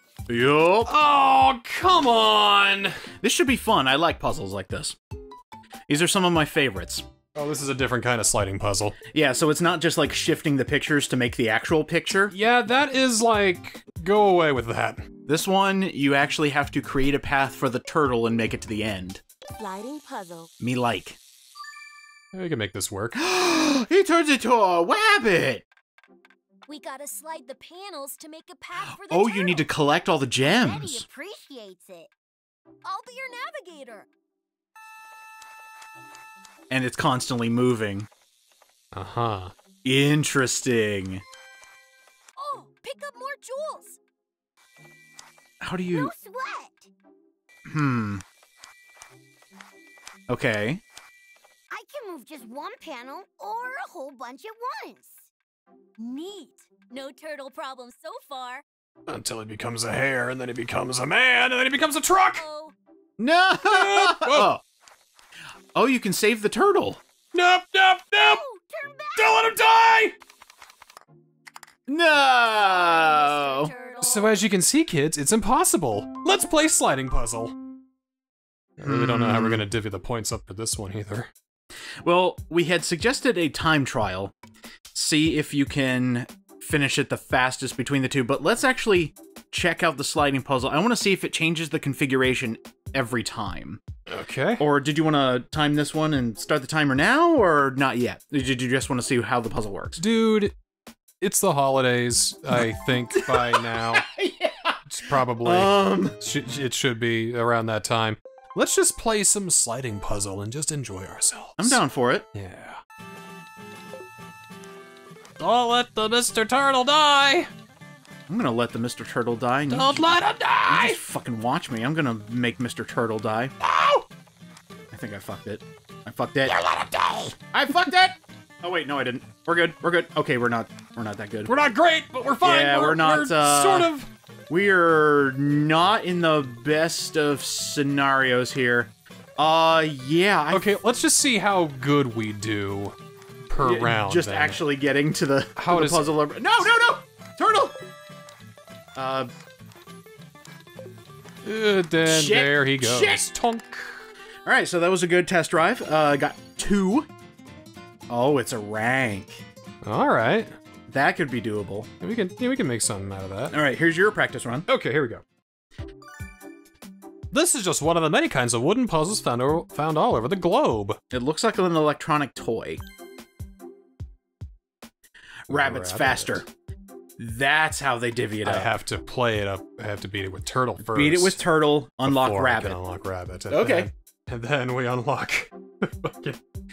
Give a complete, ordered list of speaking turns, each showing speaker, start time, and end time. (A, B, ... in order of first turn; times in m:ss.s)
0:00.3-0:00.9 A
0:00.8-0:03.0 B
0:03.2-0:05.0 A
0:05.9-0:07.0 A
0:07.3-0:09.0 B
0:09.1-0:12.3 A
0:12.3-0:15.1 B
0:15.3-0:19.2 A
0:19.6-0:20.5 C
0:20.6-0:21.2 A
0:22.3-0:23.2 B
0:23.2-0:25.6 A
0:26.7-0:29.7 C
0:28.8-0:31.1 A
0:30.4-0:32.1 C
0:32.8-0:34.1 C
0:36.7-0:38.1 A
0:38.9-0:39.5 B
0:39.8-0:41.2 A
0:42.4-0:44.0 C
0:45.6-0:46.1 A
0:45.9-0:46.9 C
0:47.7-0:48.2 A
0:50.3-0:50.8 A
0:51.7-0:55.3 C
0:56.0-0:58.6 C
0:59.1-1:02.4 B
1:02.3-1:02.7 C
1:03.2-1:04.6 A
1:03.6-1:04.5 B
1:05.7-1:07.0 A
1:07.3-1:08.4 B
1:08.2-1:09.5 C
1:09.2-1:10.2 B
1:11.9-1:13.7 A
1:12.5-1:14.5 C
1:14.0-1:17.6 B
1:18.8-1:21.3 B
1:18.8-1:19.6 A
1:22.0-1:24.3 A
1:24.9-1:33.8 A
1:34.1-1:34.6 B
1:34.6-1:40.0 A
1:40.0-1:40.6 B
1:41.2-1:44.0 B
1:42.6-1:46.2 A
1:44.9-1:51.8 B
1:51.6-1:52.3 A
1:52.3-1:52.8 B
1:55.4-1:57.5 B
1:58.3-2:00.1 A
1:59.7-2:01.0 B
2:00.7-2:04.0 A
2:04.9-2:06.6 A
2:06.6-2:07.3 B
2:07.3-2:11.5 A
2:11.5-2:14.1 B
2:12.4-2:13.9 A
2:14.5-2:20.7 A
2:20.5-2:23.0 B
2:23.5-2:24.6 B
2:23.6-2:27.8 A
2:25.6-2:26.0 B
2:29.0-2:29.3 A
2:31.4-2:34.1 B
2:32.1-2:33.2 A
2:34.4-2:37.1 A
2:38.1-2:39.4 A
2:39.8-2:40.5 B
2:40.9-2:41.9 A
2:42.0-2:43.6 B
2:43.5-2:44.7 A
2:44.7-2:45.2 B
2:47.3-2:51.0 B
2:51.1-2:52.8 A
2:55.5-2:56.4 B
2:55.5-2:56.5 A
2:57.2-2:58.8 A
2:58.4-3:01.4 B
3:00.9-3:02.8 A
3:02.0-3:06.4 B
3:03.5-3:03.9 A